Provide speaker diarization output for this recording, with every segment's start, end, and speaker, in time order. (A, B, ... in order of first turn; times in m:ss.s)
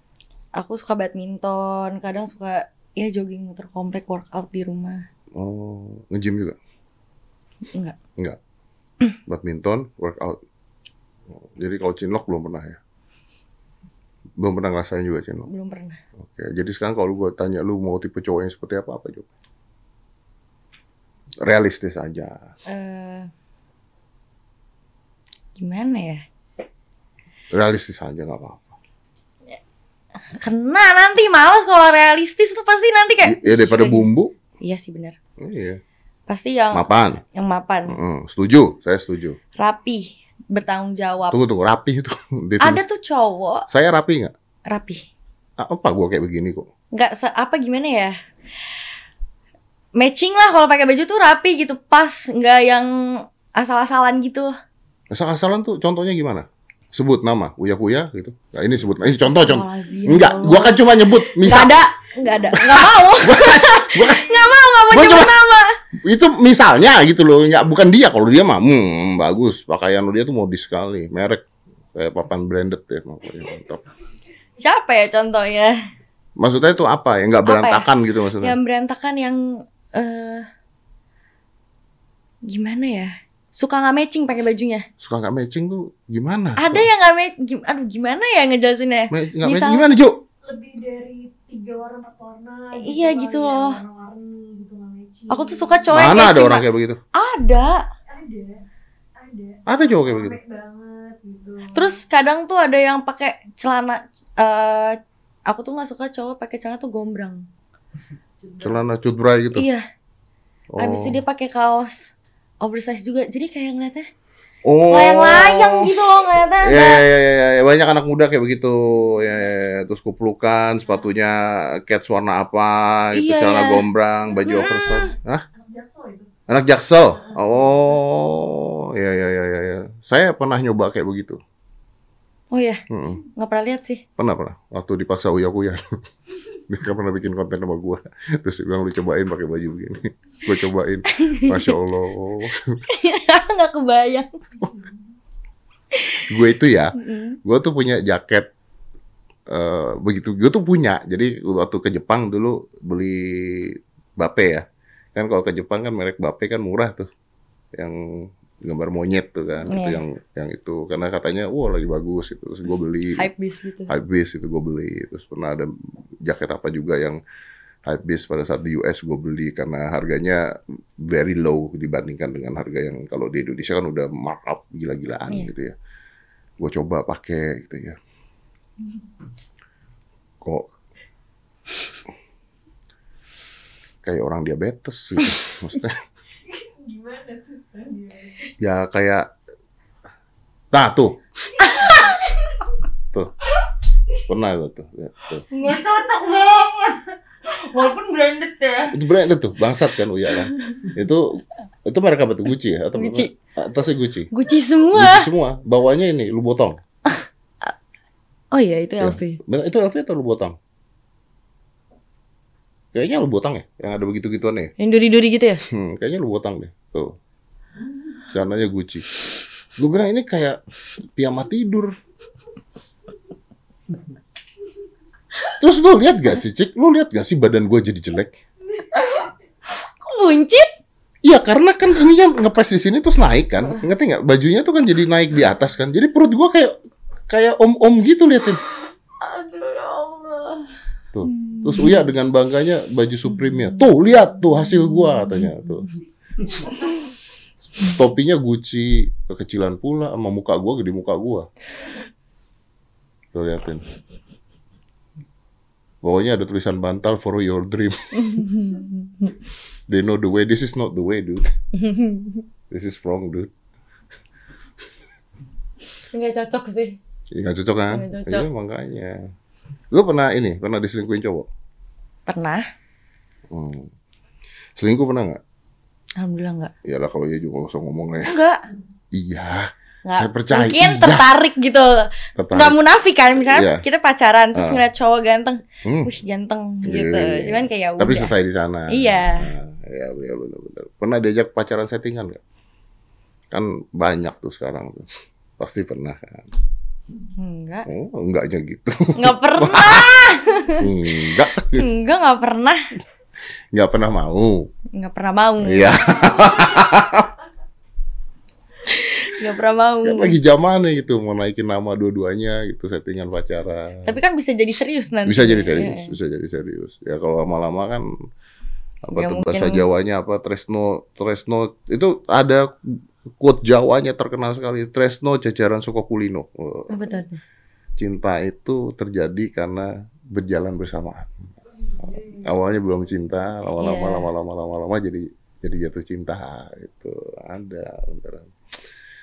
0:00.6-0:05.0 A
0:05.4-0:06.6 B
0:07.7-0:08.0 A
0:09.3-0:10.4 B
0:11.3-0:12.8 B
0:14.4-0:15.5 B
0:15.5-0:16.0 A
0:16.2-0:19.3 B
0:21.4-0:22.5 B
0:22.7-0:23.3 A
0:25.6-0:26.2 A
0:27.5-0:28.7 B
0:30.3-0:34.1 A
0:33.2-0:34.3 B
0:34.6-0:35.2 A
0:35.4-0:35.8 B
0:36.3-0:38.0 A
0:36.7-0:37.2 B
0:37.9-0:39.4 B
0:39.6-0:41.4 A
0:41.3-0:42.8 B
0:42.6-0:43.7 A
0:43.7-0:44.3 B
0:44.7-0:45.0 A
0:45.6-0:46.7 B
0:46.9-0:48.2 A
0:50.0-0:54.6 A
0:55.1-1:01.8 B
0:59.3-1:05.7 A
1:02.5-1:04.3 B
1:04.9-1:05.3 B
1:06.0-1:13.9 B
1:14.6-1:15.8 A
1:16.4-1:18.6 B
1:17.4-1:20.4 A
1:22.4-1:24.9 A
1:25.0-1:26.9 B
1:26.6-1:29.9 A
1:29.1-1:30.2 B
1:30.4-1:36.0 C
1:32.8-1:33.8 A
1:35.3-1:37.9 A
1:35.9-1:37.0 B
1:38.1-1:38.6 C
1:39.2-1:42.0 C
1:39.7-1:40.4 B
1:41.7-1:47.4 A
1:48.4-1:48.8 C
1:48.6-1:49.7 B
1:49.6-1:49.8 A
1:50.7-1:51.2 B
1:50.8-1:54.1 A
1:54.6-1:55.9 B
1:54.9-1:57.0 A
1:56.6-2:05.4 B
2:03.1-2:03.9 A
2:04.4-2:05.1 A
2:05.5-2:06.3 C
2:06.5-2:11.4 B
2:07.2-2:07.9 C
2:12.5-2:12.8 A
2:12.9-2:13.2 B
2:13.3-2:14.0 A
2:14.2-2:15.8 B
2:16.7-2:22.8 B
2:21.1-2:21.7 A
2:22.9-2:24.4 A
2:24.6-2:24.9 C
2:25.9-2:26.2 A
2:26.3-2:28.5 B
2:27.0-2:27.4 A
2:29.5-2:37.1 B
2:37.7-2:43.3 B
2:39.7-2:40.0 A
2:43.1-2:43.9 A
2:43.9-2:45.7 B
2:46.2-2:47.2 B
2:47.9-2:50.4 B
2:51.0-2:55.8 B
2:56.6-2:58.0 B
3:00.4-3:00.7 B
3:04.0-3:06.0 B
3:06.5-3:08.5 C
3:08.6-3:09.3 B
3:10.7-3:11.2 B
3:11.6-3:12.2 A
3:14.2-3:15.4 B
3:15.5-3:19.0 A
3:18.9-3:24.3 B
3:22.9-3:23.3 A
3:24.3-3:25.3 A
3:24.9-3:26.8 B
3:27.1-3:27.7 A
3:28.5-3:29.4 A
3:29.0-3:30.6 B
3:32.9-3:34.7 B
3:34.8-3:35.6 A
3:35.7-3:37.2 B
3:38.3-3:39.1 B
3:39.8-3:40.6 B
3:41.2-3:42.0 B
3:45.6-3:48.4 B
3:48.9-3:49.3 A
3:49.8-3:50.7 A
3:51.2-3:56.7 B
3:57.3-3:58.6 B
3:59.2-4:00.7 A
4:01.1-4:05.9 B
4:01.3-4:02.1 A
4:03.3-4:03.8 A
4:05.2-4:05.5 A
4:07.8-4:11.5 B
4:13.3-4:13.8 B
4:16.0-4:18.4 B
4:18.2-4:19.3 A
4:19.9-4:21.5 B
4:21.7-4:22.4 A
4:22.7-4:23.5 B
4:26.1-4:27.0 A
4:27.3-4:29.3 B
4:27.9-4:28.5 A
4:29.9-4:31.5 B
4:32.3-4:32.7 A
4:33.5-4:33.9 B
4:34.8-4:35.4 B
4:36.2-4:36.7 A
4:36.8-4:38.3 B
4:38.3-4:38.6 A
4:39.1-4:41.2 B
4:40.0-4:48.3 A
4:42.4-4:42.8 B
4:43.4-4:43.8 B
4:44.5-4:44.8 B
4:45.8-4:46.1 B
4:46.8-4:52.4 B
4:48.9-4:49.5 A
4:53.5-4:55.1 B
4:55.6-4:56.4 B
4:57.4-4:57.9 A
4:57.9-5:00.2 B
4:59.2-5:00.9 A
5:00.8-5:01.9 B
5:01.7-5:02.8 A
5:03.7-5:04.7 B
5:04.9-5:06.2 A
5:05.6-5:07.3 B
5:08.8-5:10.4 A
5:10.0-5:14.2 B
5:14.0-5:16.2 A
5:15.2-5:18.1 B
5:19.0-5:27.2 B
5:19.1-5:19.9 A
5:26.9-5:27.4 A
5:28.0-5:31.4 B
5:32.0-5:38.5 B
5:33.8-5:34.3 A